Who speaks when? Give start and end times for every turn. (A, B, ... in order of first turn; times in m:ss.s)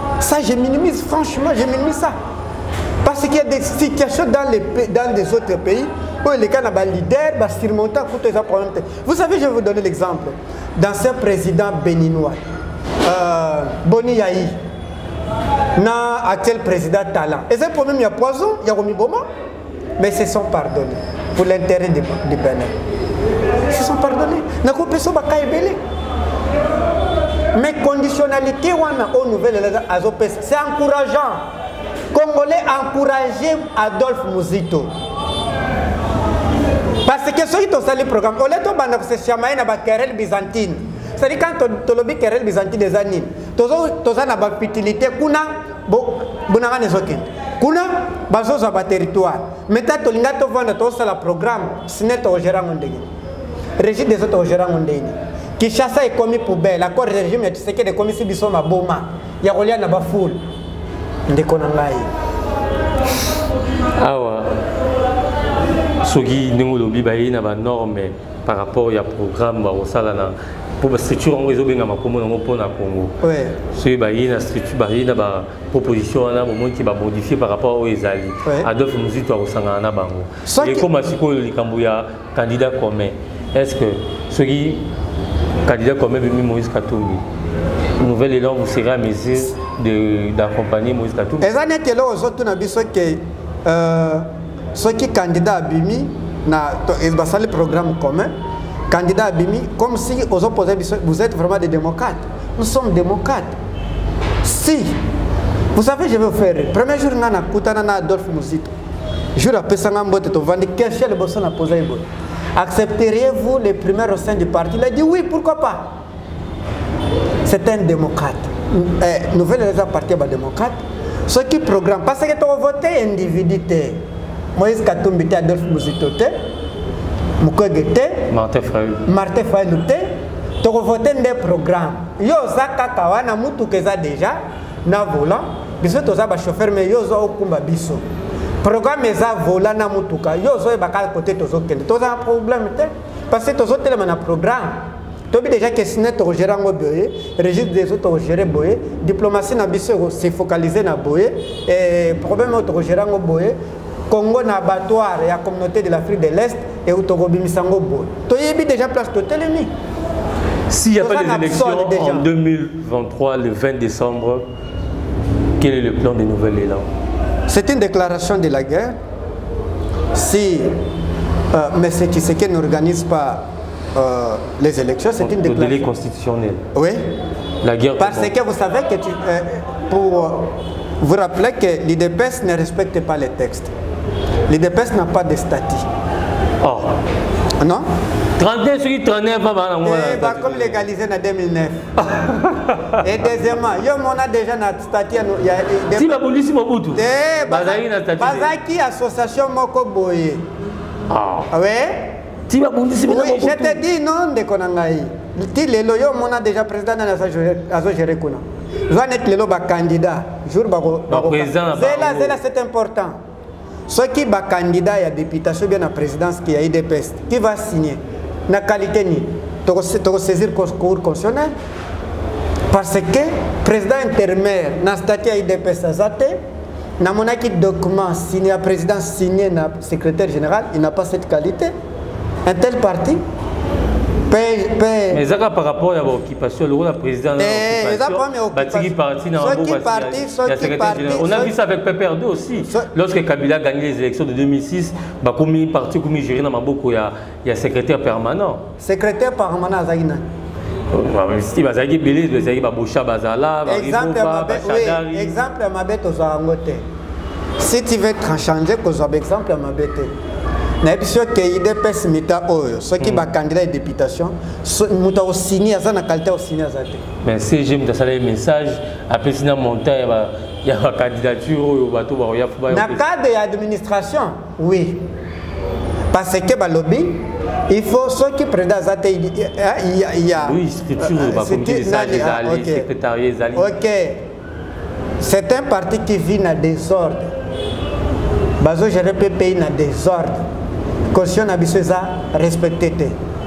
0:00.2-0:02.2 A
0:03.0-0:12.4 A
0:13.0-0:14.6 A
0:15.8-0:19.2 A
0:20.0-0:22.7 A
0:23.7-0:25.8 A
0:27.5-0:31.4 A
0:32.1-0:34.9 A
0:37.0-0:53.1 A
0:53.8-1:00.4 A
1:01.3-1:02.1 A
1:04.0-1:04.6 B
1:06.0-1:13.2 B
1:13.2-1:13.6 A
1:13.7-1:24.9 B
1:20.5-1:20.9 A
1:25.6-1:27.2 B
1:28.0-1:31.5 B
1:31.4-1:38.4 A
1:38.9-1:43.6 A
1:44.4-1:45.0 A
1:45.7-1:48.7 A
1:49.4-1:55.9 A
1:57.4-2:04.0 A
2:04.6-2:06.3 A
2:07.4-2:08.3 A
2:08.3-2:09.1 B
2:09.1-2:10.1 A
2:10.6-2:18.0 A
2:18.6-2:33.6 A
2:34.1-2:39.7 A
2:40.7-2:44.4 B
2:41.0-2:42.3 A
2:45.6-2:46.9 B
2:47.5-2:49.0 A
2:50.1-2:50.8 A
2:51.5-2:55.9 A
2:55.2-2:56.6 B
2:56.7-2:57.2 A
2:57.6-2:58.3 B
2:58.0-3:03.7 A
3:04.5-3:05.9 A
3:06.6-3:07.0 B
3:07.6-3:07.9 A
3:08.4-3:10.8 B
3:09.8-3:11.9 A
3:12.0-3:13.0 B
3:13.0-3:16.2 A
3:15.9-3:18.5 B
3:16.9-3:20.5 A
3:21.1-3:21.5 B
3:21.5-3:22.2 A
3:22.5-3:23.8 B
3:23.1-3:33.2 A
3:31.1-3:32.4 B
3:33.9-3:41.5 A
3:42.7-3:46.4 A
3:47.0-3:51.7 A
3:52.4-3:53.2 A
3:54.3-3:55.2 A
3:55.1-4:08.6 B
3:57.4-4:01.5 A
4:02.6-4:02.9 A
4:08.8-4:10.3 A
4:10.9-4:15.4 B
4:13.7-4:16.8 A
4:17.6-4:20.1 A
4:20.8-4:27.0 A
4:27.2-4:33.0 B
4:32.7-4:35.1 A
4:36.1-4:42.9 A
4:40.4-4:43.8 B
4:43.6-4:44.3 A
4:45.2-4:47.4 A
4:48.6-4:50.5 A
4:51.1-4:53.2 A